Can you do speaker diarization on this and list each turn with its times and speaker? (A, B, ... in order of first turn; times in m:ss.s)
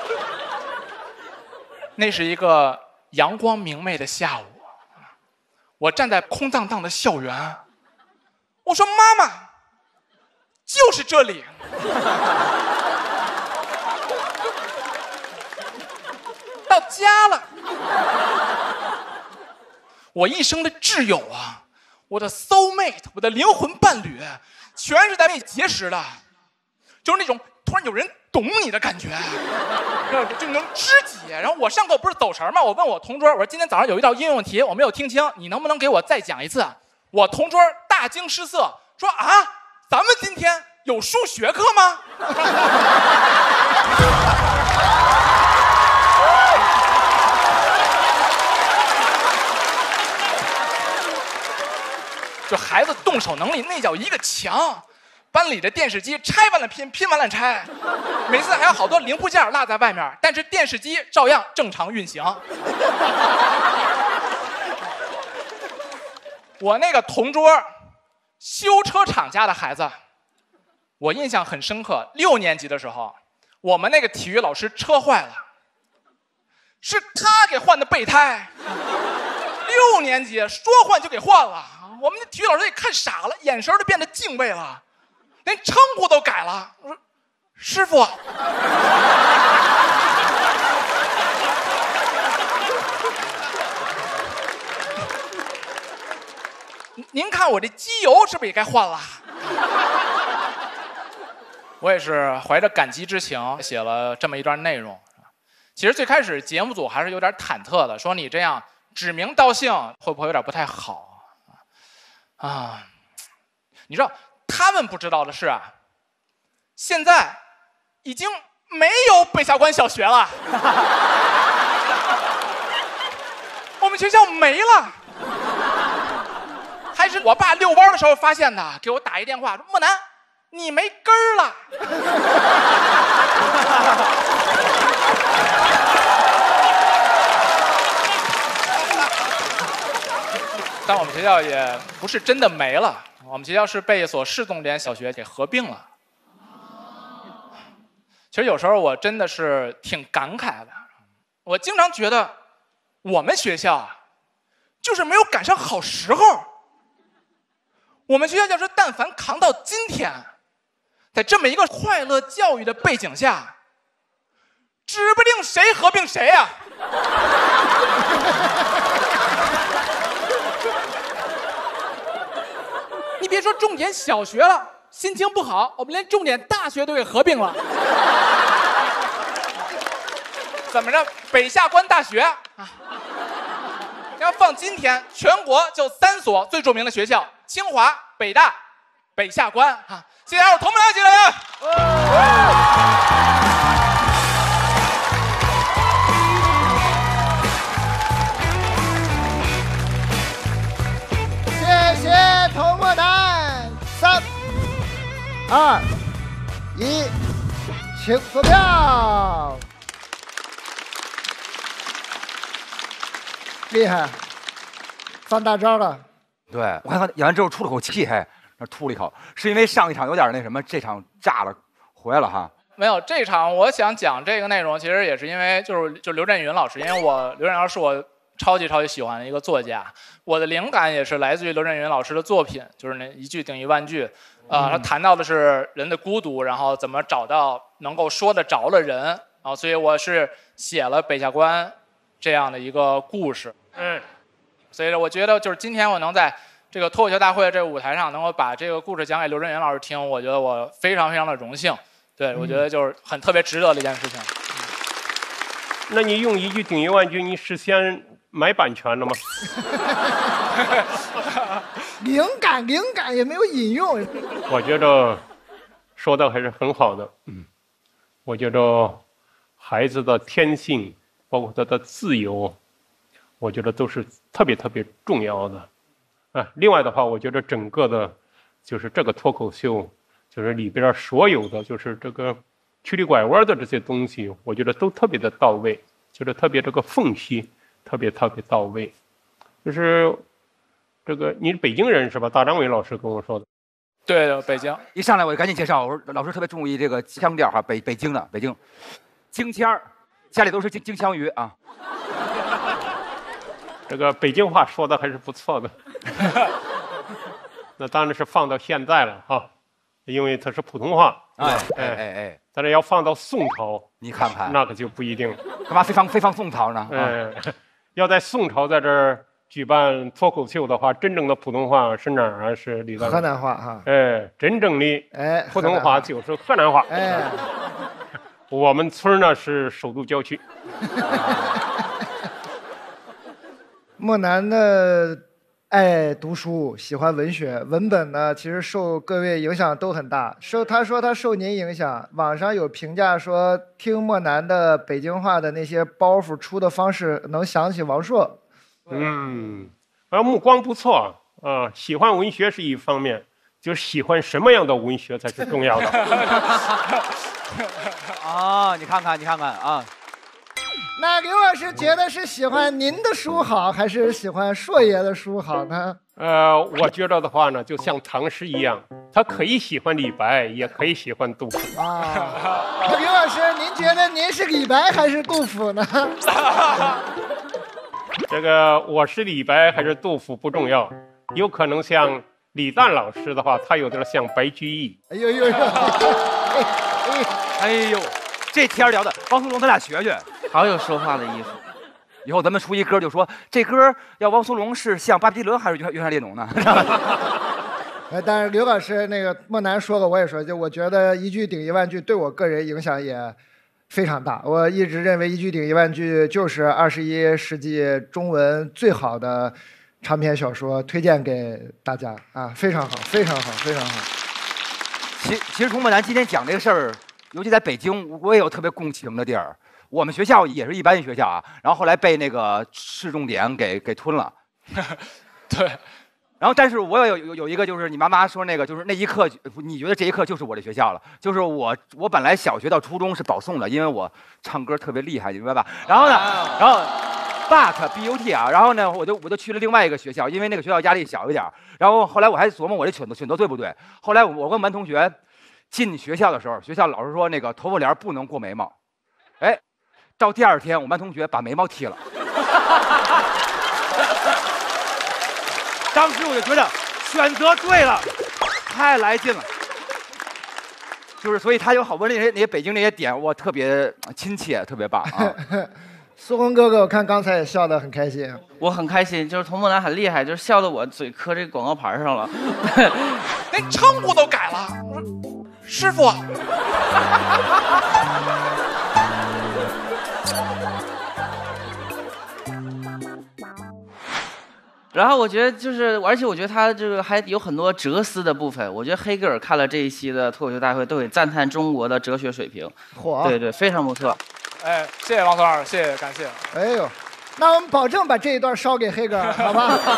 0:02.0-0:04.6 A
0:05.8-0:07.6 A
0:08.6-0:09.5 A
0:10.6-0:11.6 A
0:16.7-0:17.4 A
0:20.1-0:26.2 A
0:27.0-0:29.4 A
0:30.1-0:42.0 A
0:52.5-0:57.7 A
0:58.2-1:02.4 A
1:06.6-1:07.7 A
1:08.4-1:10.0 A
1:11.0-1:15.4 A
1:16.8-1:18.5 A
1:19.6-1:24.8 A
1:25.4-1:27.0 A
1:27.6-1:28.2 A
1:37.0-1:39.2 A
1:41.8-1:45.0 A
1:45.8-1:51.2 A
1:52.4-1:52.9 A
1:53.9-1:55.7 A
1:56.8-1:57.4 A
1:58.0-2:00.5 A
2:03.8-2:05.0 A
2:06.9-2:10.0 A
2:10.5-2:11.6 A
2:20.8-2:25.9 A
2:28.3-2:30.8 A
2:31.4-2:32.3 A
2:33.0-2:34.0 A
2:34.8-2:36.5 A
2:38.1-2:40.3 A
2:41.1-2:43.5 A
2:44.8-2:46.6 A
2:53.2-2:57.6 A
3:00.7-3:02.8 A
3:04.2-3:08.6 A
3:09.2-3:11.4 A
3:21.5-3:24.2 B
3:25.5-3:25.9 B
3:26.7-3:27.1 B
3:27.9-3:29.6 B
3:33.7-3:34.2 B
3:35.2-3:36.0 B
3:36.5-3:42.5 C
3:42.8-4:03.5 A
4:03.8-4:04.0 D
4:04.7-4:14.3 A
4:15.9-4:19.2 D
4:22.0-4:24.1 B
4:24.5-4:25.2 D
4:26.0-4:27.1 D
4:28.2-4:29.0 D
4:29.6-4:32.6 D
4:33.4-4:35.7 D
4:36.3-4:48.9 D
4:49.6-4:50.2 D
4:51.0-4:53.4 D
4:54.1-4:54.8 A
4:54.9-4:58.6 C
4:59.3-5:01.5 C
5:03.9-5:06.3 D
5:07.8-5:09.5 D
5:10.1-5:12.0 D
5:11.4-5:12.4 C
5:12.5-5:15.4 D
5:14.0-5:14.6 C
5:15.7-5:17.1 C
5:16.9-5:23.2 D
5:23.0-5:23.8 B
5:23.8-5:27.2 D
5:25.1-5:26.1 B
5:26.9-5:27.4 B
5:28.5-5:30.4 D
5:34.0-5:48.4 B
5:48.9-5:56.3 D
5:58.2-5:59.9 C
6:01.0-6:06.0 B
6:06.2-6:11.7 D
6:11.8-6:16.2 B
6:18.3-6:25.0 D
6:25.1-6:27.3 B
6:27.6-6:30.3 C
6:30.5-6:31.6 E
6:32.2-6:37.1 C
6:38.1-6:43.4 B
6:43.9-6:54.1 B
6:55.2-7:04.3 C
7:04.8-7:05.8 A
7:06.4-7:25.2 C
7:25.7-7:28.7 C
7:30.2-7:32.0 C
7:35.9-7:38.1 C
7:38.6-7:39.5 C
7:41.2-7:45.4 C
7:45.2-7:48.4 B
7:48.6-7:53.2 E
7:53.5-7:55.0 A
7:55.6-7:56.2 A
8:04.9-8:14.2 E
8:12.9-8:13.4 B
8:14.6-8:16.4 A
8:16.5-8:19.8 B